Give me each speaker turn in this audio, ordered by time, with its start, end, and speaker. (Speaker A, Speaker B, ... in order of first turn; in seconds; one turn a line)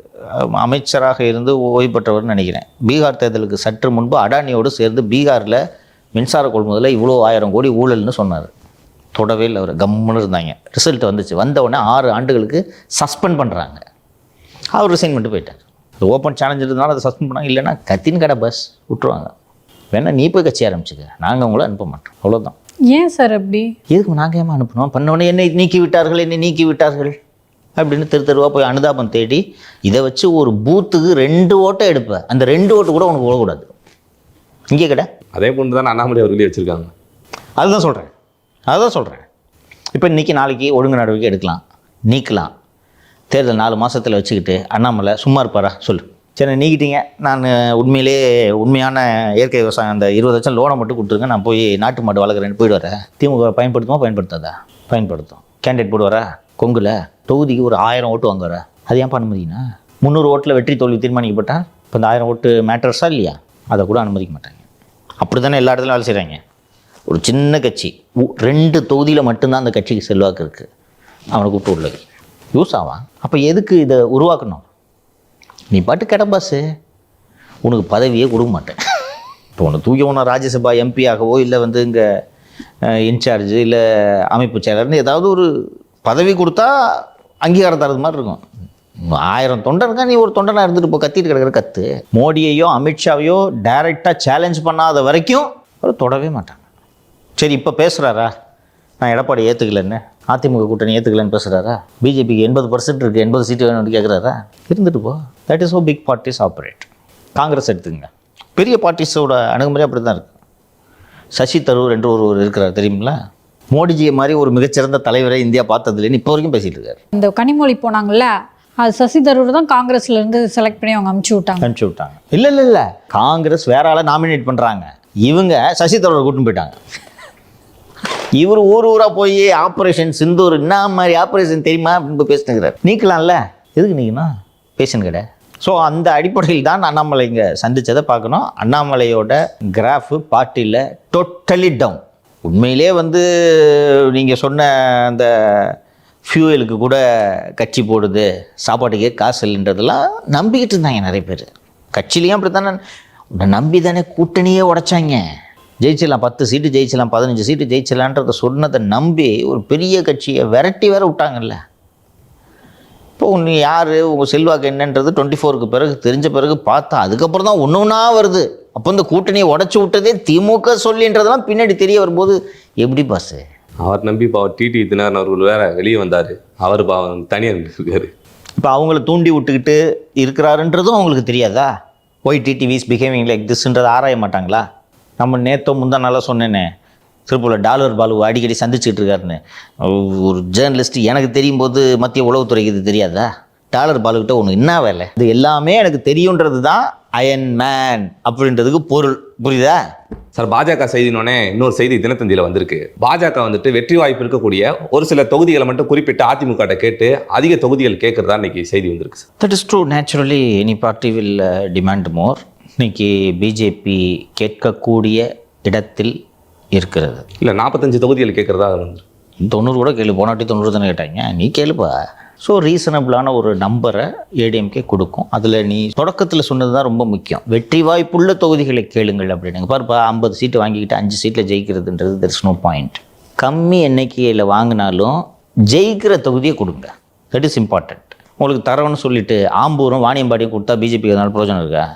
Speaker A: 0.3-5.6
Speaker A: 6.1-8.5
Speaker A: 9.1-13.8
Speaker A: 14.7-19.3
Speaker A: 19.9-22.5
Speaker B: 22.9-23.7
Speaker A: 23.9-27.1
Speaker A: 27.8-33.7
Speaker A: 34.7-35.0
Speaker C: 35.3-36.9
Speaker A: 37.6-38.1
Speaker A: 38.7-39.2
Speaker A: 39.9-42.5
Speaker A: 43.3-64.6
Speaker A: 65.2-66.4
Speaker A: 67.1-70.7
Speaker A: 71.3-72.0
Speaker A: 72.5-74.6
Speaker A: 75.7-76.6
Speaker A: 77.6-78.8
Speaker A: 79.5-82.0
Speaker A: 82.9-85.5
Speaker A: 86.0-86.7
Speaker A: 87.4-88.4
Speaker A: 89.0-96.6
Speaker A: 97.4-98.3
Speaker A: 99.0-110.3
Speaker A: 111.3-113.1
Speaker A: 113.7-117.0
Speaker B: 117.1-118.3
Speaker B: 118.8-121.7
Speaker A: 121.6-126.8
Speaker A: 128.3-152.8
Speaker A: 153.4-155.2
Speaker A: 155.8-161.6
Speaker A: 163.2-173.4
Speaker C: 173.8-178.1
Speaker A: 178.6-181.7
Speaker A: 182.2-184.6
Speaker A: 185.2-186.7
Speaker A: 187.3-199.8
Speaker C: 200.3-209.2
Speaker A: 209.4-216.1
Speaker A: 216.8-217.2
Speaker C: 217.4-219.0
Speaker A: 219.4-235.2
Speaker A: 235.7-241.8